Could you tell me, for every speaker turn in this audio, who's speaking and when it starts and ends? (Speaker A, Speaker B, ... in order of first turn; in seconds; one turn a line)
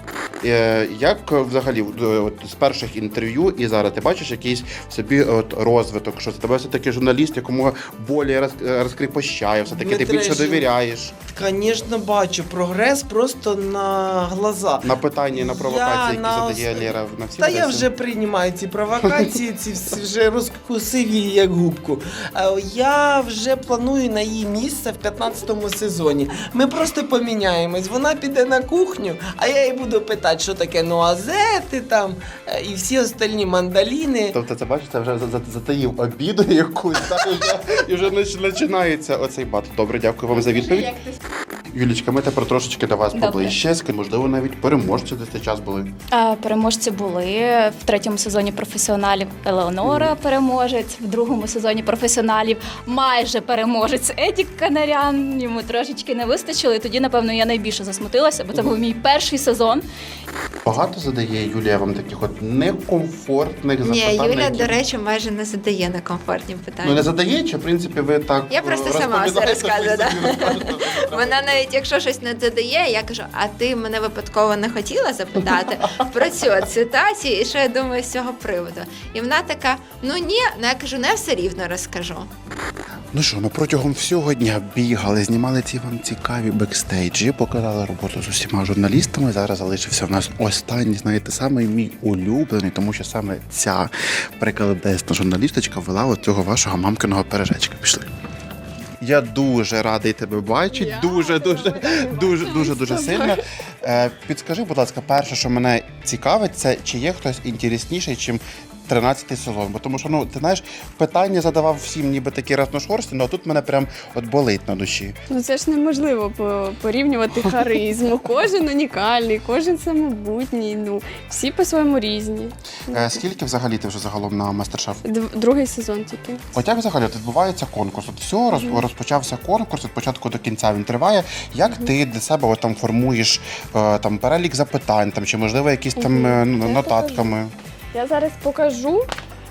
Speaker A: 0.4-11.1
Speaker B: 9.8-34.4
Speaker A: 14.8-17.9
Speaker A: 34.3-41.0
Speaker A: 41.7-45.9
Speaker C: 43.1-43.5
Speaker C: 46.1-59.9
Speaker A: 49.8-50.1
Speaker A: 60.6-64.7
Speaker D: 63.8-67.1
Speaker A: 66.8-71.6
Speaker D: 68.5-82.3
Speaker A: 83.1-98.1
Speaker A: 99.0-115.2
Speaker E: 100.7-103.4
Speaker E: 115.3-123.2
Speaker A: 122.9-125.0
Speaker E: 125.0-126.4
Speaker A: 126.5-137.5
Speaker E: 128.5-128.8
Speaker E: 136.0-137.3
Speaker E: 137.9-139.1